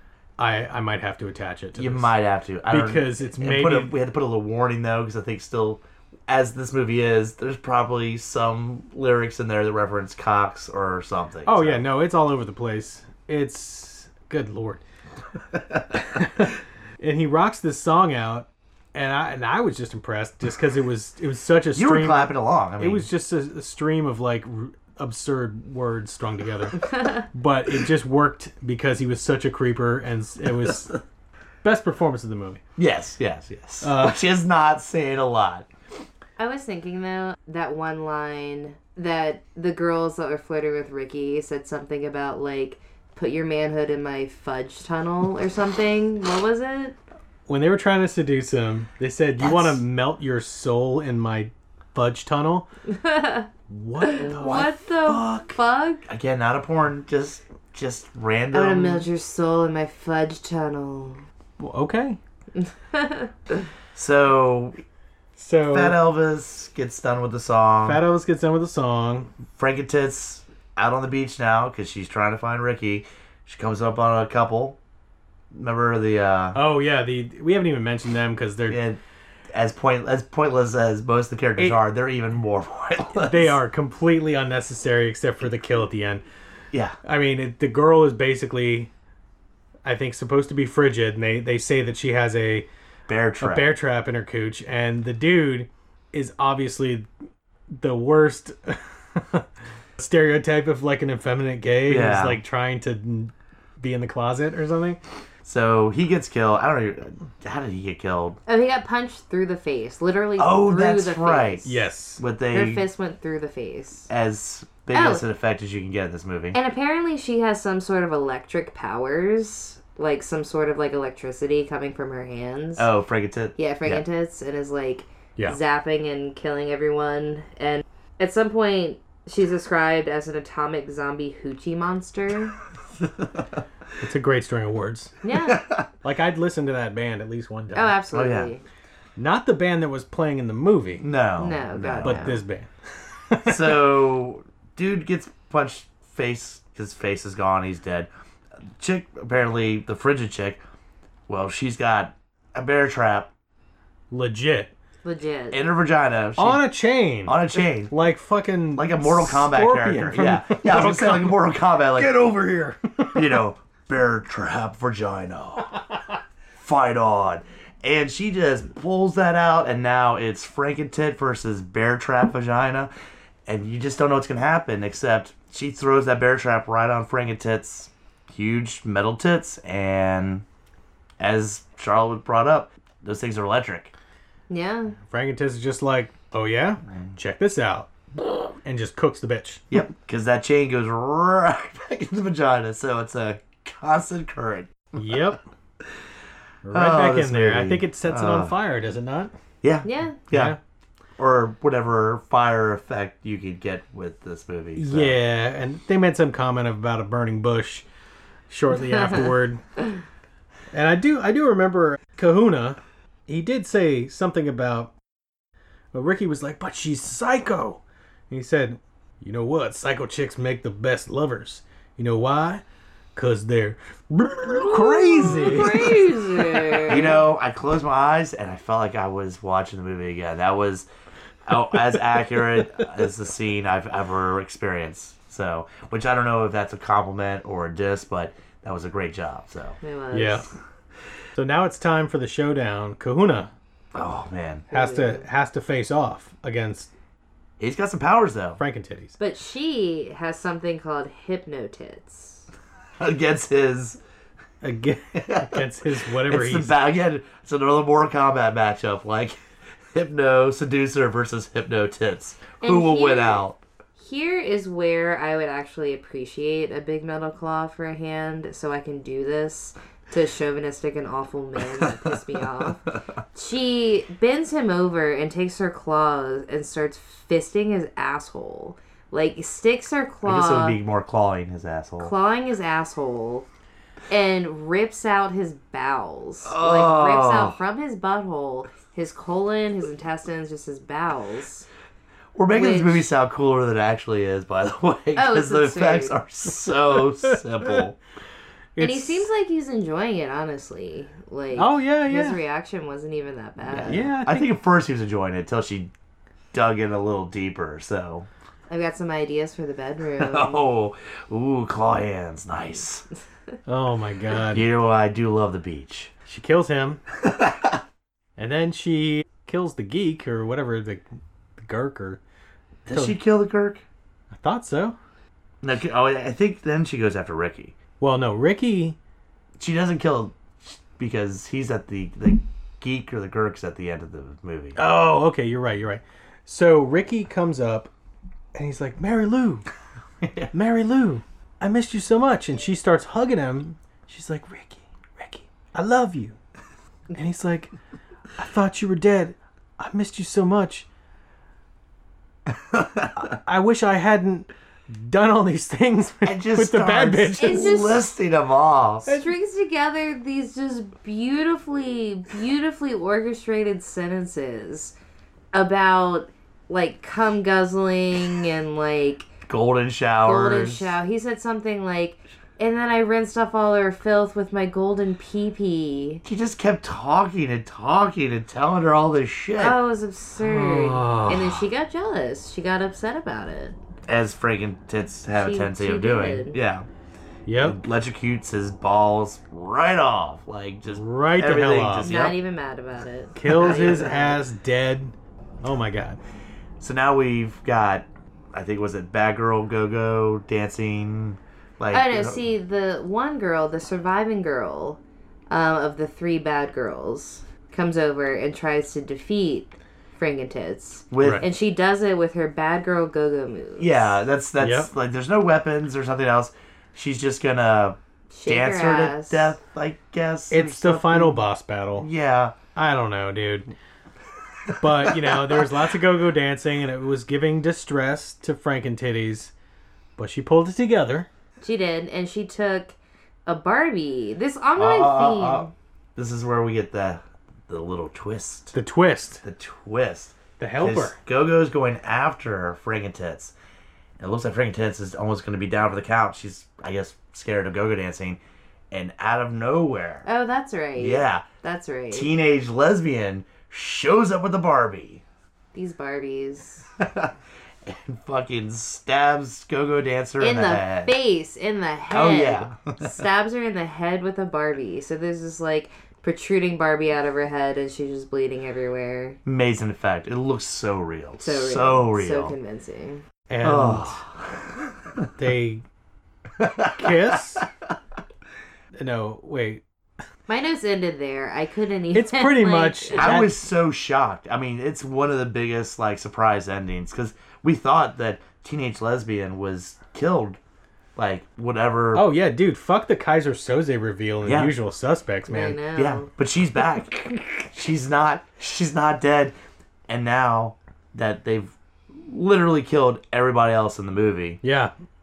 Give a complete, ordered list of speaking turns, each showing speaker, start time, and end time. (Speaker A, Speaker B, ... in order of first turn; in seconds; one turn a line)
Speaker A: 0.4-2.1
Speaker B: 1.8-11.8
Speaker A: 2.7-3.9
Speaker A: 11.4-14.8
Speaker A: 16.0-31.0
Speaker B: 21.8-23.1
Speaker C: 26.8-27.2
Speaker B: 30.6-30.8
Speaker A: 31.6-32.6
Speaker B: 32.8-35.7
Speaker A: 33.8-34.2
Speaker C: 36.4-47.0
Speaker A: 47.5-52.7
Speaker B: 49.4-49.8
Speaker C: 52.9-53.5
Speaker A: 53.7-55.6
Speaker C: 54.0-56.0
Speaker B: 54.3-54.7
Speaker B: 56.1-59.1
Speaker C: 58.5-61.2
Speaker A: 61.6-62.2
Speaker C: 62.5-63.6
Speaker B: 64.0-64.8
Speaker A: 65.4-66.0
Speaker B: 65.7-68.0
Speaker A: 67.8-69.3
Speaker B: 69.5-74.8
Speaker B: 75.5-76.6
Speaker A: 76.5-78.8
Speaker B: 78.7-79.0
Speaker B: 79.5-83.6
Speaker A: 83.1-86.2
Speaker B: 86.7-87.0
Speaker A: 87.0-88.9
Speaker A: 89.8-92.7
Speaker B: 93.1-93.8
Speaker A: 93.4-97.1
Speaker A: 97.7-99.5
Speaker A: 100.0-105.0
Speaker B: 101.9-102.4
Speaker B: 105.5-108.4
Speaker C: 108.5-111.7
Speaker B: 110.4-112.8
Speaker A: 111.7-112.2
Speaker C: 112.5-114.1
Speaker B: 114.1-116.6
Speaker C: 114.9-115.2
Speaker C: 116.5-122.9
Speaker B: 122.8-124.0
Speaker C: 123.6-132.6
Speaker B: 133.0-133.4
Speaker A: 134.0-135.1
Speaker C: 135.2-135.6
Speaker B: 135.4-135.9
Speaker A: 136.0-138.0
Speaker C: 137.7-138.6
Speaker B: 138.1-138.5
Speaker A: 139.2-141.0
Speaker B: 141.0-142.2
Speaker C: 141.4-142.4
Speaker A: 142.0-143.8
Speaker B: 143.5-148.1
Speaker B: 148.8-150.6
Speaker B: 151.3-153.3
Speaker A: 154.1-154.7
Speaker C: 155.0-155.6
Speaker B: 155.5-156.6
Speaker A: 156.4-163.3
Speaker B: 157.2-157.9
Speaker B: 158.8-162.3
Speaker B: 163.2-165.8
Speaker B: 166.6-172.9
Speaker B: 173.5-180.4
Speaker B: 181.2-183.9
Speaker C: 184.5-185.0
Speaker A: 185.0-187.9
Speaker A: 188.6-189.6
Speaker B: 189.7-195.2
Speaker A: 195.0-195.4
Speaker A: 196.6-199.3
Speaker B: 196.7-198.5
Speaker B: 199.6-200.6
Speaker C: 199.8-200.2
Speaker A: 200.3-200.6
Speaker B: 201.2-205.2
Speaker A: 204.8-207.9
Speaker A: 208.5-209.6
Speaker C: 208.8-209.3
Speaker A: 210.7-214.9
Speaker A: 215.9-222.6
Speaker A: 223.2-226.8
Speaker C: 224.7-227.2
Speaker B: 226.9-230.9
Speaker B: 231.5-239.8
Speaker C: 239.8-240.5
Speaker A: 240.1-240.5
Speaker A: 241.3-243.5
Speaker B: 243.9-244.7
Speaker C: 244.7-245.2
Speaker A: 244.7-246.9
Speaker B: 247.6-248.6
Speaker A: 248.6-249.2
Speaker C: 249.2-252.5
Speaker B: 253.0-254.0
Speaker A: 254.6-256.8
Speaker B: 255.2-259.4
Speaker B: 259.9-263.6
Speaker C: 262.6-263.4
Speaker C: 264.0-280.8
Speaker B: 271.8-272.1
Speaker B: 280.2-282.1
Speaker C: 282.0-283.5
Speaker C: 284.1-291.7
Speaker B: 286.4-287.6
Speaker B: 292.4-298.0
Speaker C: 292.5-293.1
Speaker C: 295.1-296.2
Speaker A: 298.8-299.2
Speaker C: 298.8-304.1
Speaker A: 301.6-302.4
Speaker B: 303.7-305.9
Speaker A: 303.7-304.5
Speaker B: 306.5-308.3
Speaker C: 308.7-310.6
Speaker B: 310.2-313.1
Speaker A: 313.7-314.6
Speaker B: 314.5-316.1
Speaker A: 316.3-317.0
Speaker B: 317.2-317.8
Speaker A: 318.4-321.0
Speaker A: 321.6-322.2
Speaker B: 322.9-323.8
Speaker A: 322.9-323.2
Speaker A: 324.3-325.0
Speaker B: 325.6-327.8
Speaker A: 328.0-329.0
Speaker B: 329.6-334.8
Speaker A: 334.8-337.9
Speaker A: 338.6-339.7
Speaker B: 340.2-340.5
Speaker A: 340.5-346.4
Speaker A: 347.1-347.7
Speaker A: 348.4-350.9
Speaker B: 352.7-353.3
Speaker A: 353.4-357.8
Speaker B: 356.2-359.2
Speaker C: 357.4-358.1
Speaker C: 359.1-364.9
Speaker C: 365.5-369.3
Speaker B: 369.5-370.9
Speaker C: 370.2-376.2
Speaker B: 376.2-379.8
Speaker C: 379.6-383.8
Speaker A: 380.4-381.6
Speaker B: 384.1-386.9
Speaker C: 385.3-386.6
Speaker A: 387.5-387.8
Speaker B: 387.6-392.4
Speaker A: 390.9-392.1
Speaker C: 392.0-394.4
Speaker A: 393.4-396.2
Speaker B: 396.8-402.4
Speaker C: 401.9-414.1
Speaker B: 411.1-411.5
Speaker A: 411.2-411.4
Speaker B: 413.8-421.4
Speaker A: 414.6-414.9
Speaker C: 418.3-419.6
Speaker A: 420.5-422.1
Speaker B: 422.0-422.6
Speaker A: 422.8-423.7
Speaker B: 424.7-425.7
Speaker A: 424.8-429.5
Speaker A: 430.2-431.3
Speaker C: 431.6-435.7
Speaker B: 434.8-438.7
Speaker A: 438.7-439.4
Speaker B: 439.4-443.5
Speaker A: 440.6-441.2
Speaker B: 444.2-448.4
Speaker B: 448.9-450.3
Speaker C: 450.3-452.3
Speaker B: 451.0-451.5
Speaker B: 452.1-455.2
Speaker C: 455.7-456.9
Speaker B: 457.0-457.3
Speaker B: 457.9-461.1
Speaker C: 460.4-469.4
Speaker B: 462.1-463.1
Speaker B: 469.4-472.6
Speaker C: 471.4-473.2
Speaker A: 473.5-474.2
Speaker B: 473.6-475.3
Speaker A: 475.4-475.8
Speaker B: 476.6-477.7
Speaker A: 476.9-477.7
Speaker A: 479.0-479.8
Speaker C: 480.5-483.3
Speaker A: 482.1-483.6
Speaker B: 483.2-490.6
Speaker B: 491.2-492.3
Speaker A: 492.1-495.8
Speaker B: 494.4-494.7
Speaker C: 495.5-496.3
Speaker B: 496.0-499.6
Speaker B: 500.1-504.6
Speaker A: 504.6-504.9